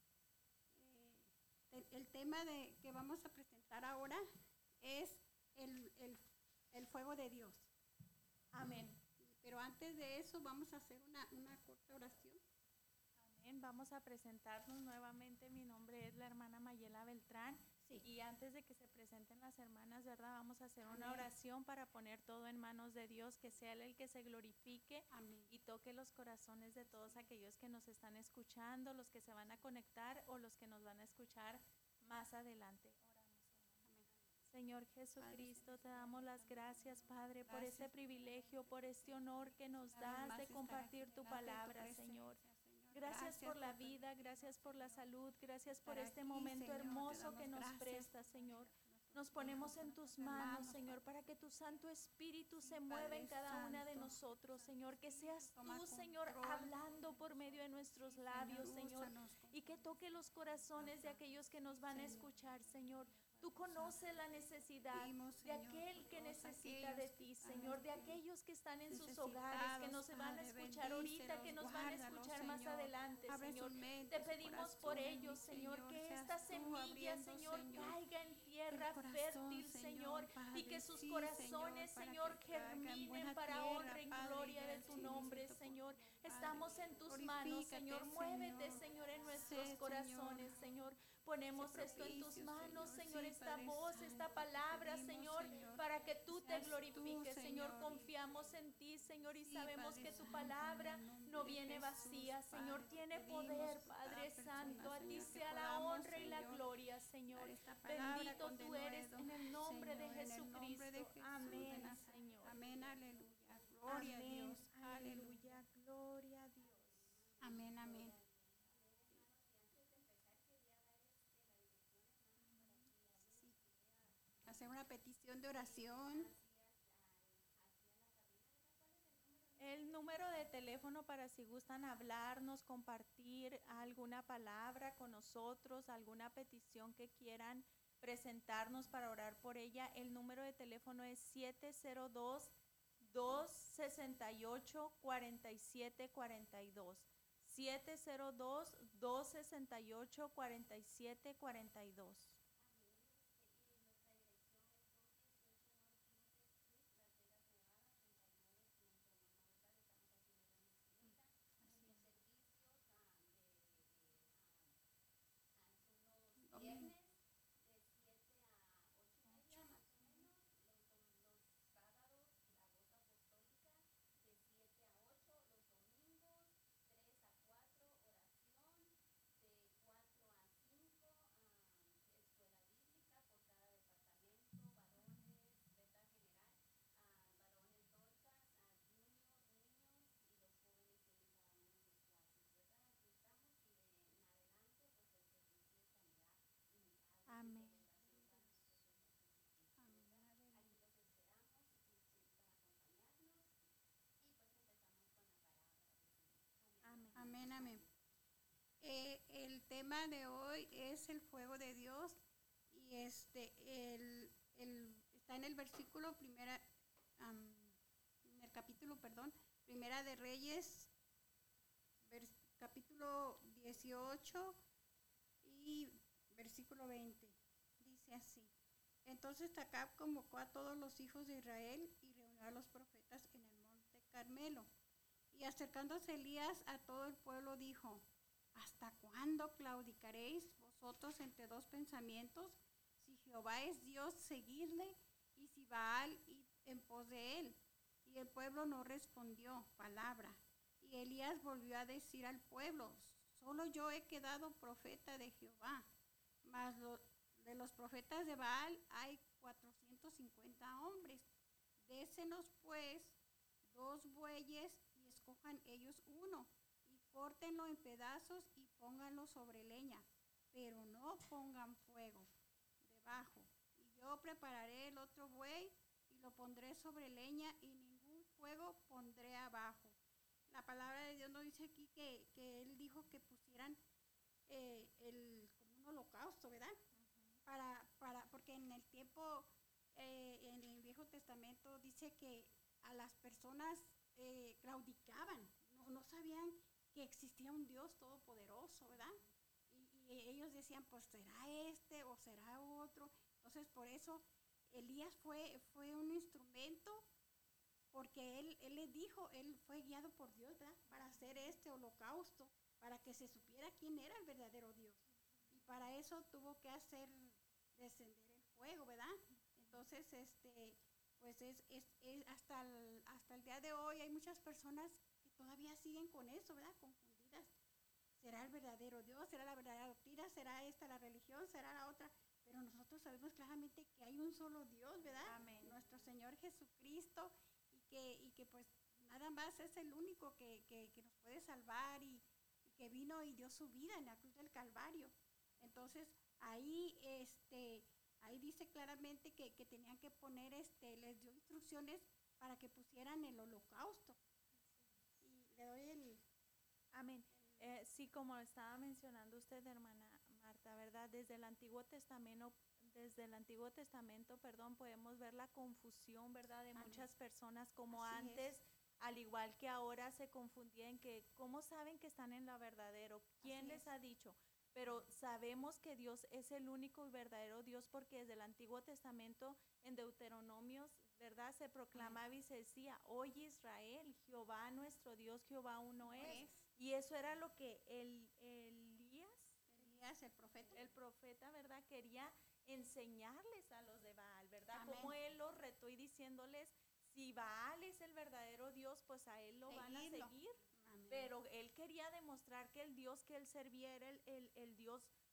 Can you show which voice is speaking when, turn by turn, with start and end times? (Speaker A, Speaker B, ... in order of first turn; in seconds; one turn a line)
Speaker A: 0.7-4.2
Speaker A: 4.8-7.7
Speaker B: 8.5-9.0
Speaker A: 8.6-12.4
Speaker B: 13.2-33.9
Speaker A: 20.9-21.3
Speaker A: 25.1-25.5
Speaker A: 26.9-27.3
Speaker C: 34.0-35.9
Speaker B: 34.5-42.4
Speaker A: 35.2-45.1
Speaker B: 42.9-112.6
Speaker A: 45.8-51.0
Speaker C: 50.2-52.3
Speaker A: 52.6-59.9
Speaker C: 56.4-59.1
Speaker C: 59.8-66.7
Speaker A: 60.7-62.3
Speaker A: 62.8-64.0
Speaker A: 64.9-68.2
Speaker C: 67.5-68.0
Speaker A: 68.9-78.0
Speaker C: 71.3-78.5
Speaker A: 78.7-90.6
Speaker C: 80.9-81.5
Speaker C: 84.7-90.7
Speaker A: 91.5-98.1
Speaker C: 91.7-105.5
Speaker A: 99.4-106.7
Speaker A: 107.3-115.4
Speaker C: 108.1-108.5
Speaker C: 111.3-114.2
Speaker B: 113.9-117.2
Speaker C: 116.6-124.7
Speaker A: 117.4-118.2
Speaker A: 122.4-123.5
Speaker A: 124.4-126.3
Speaker C: 125.5-130.9
Speaker B: 129.6-152.4
Speaker C: 152.6-164.8
Speaker A: 161.0-162.0
Speaker C: 165.5-203.6
Speaker A: 166.4-166.9
Speaker A: 169.2-170.2
Speaker B: 197.3-198.6
Speaker A: 199.8-200.8
Speaker C: 204.2-208.0
Speaker B: 206.8-207.3
Speaker A: 207.1-207.8
Speaker A: 208.8-220.9
Speaker A: 222.0-224.6
Speaker A: 225.4-228.5
Speaker A: 229.0-234.7
Speaker A: 235.3-255.9
Speaker A: 256.4-272.3
Speaker A: 272.8-283.8
Speaker A: 284.5-286.8
Speaker B: 286.9-287.4
Speaker A: 287.4-307.1
Speaker A: 307.9-327.5
Speaker B: 310.9-311.6
Speaker B: 315.3-315.9
Speaker A: 328.1-354.2
Speaker B: 335.1-335.9
Speaker C: 335.3-335.6
Speaker C: 345.5-346.0
Speaker B: 354.6-355.1
Speaker A: 355.2-356.2
Speaker B: 356.9-389.6
Speaker A: 357.3-357.7
Speaker A: 366.7-367.1
Speaker A: 367.9-368.6
Speaker A: 373.4-373.9
Speaker A: 381.9-382.2
Speaker C: 386.0-387.4
Speaker A: 386.1-386.6
Speaker A: 389.7-390.8
Speaker C: 390.5-391.0
Speaker B: 390.7-400.6
Speaker A: 394.7-395.2
Speaker A: 399.6-401.3
Speaker C: 400.4-400.8
Speaker B: 401.1-405.1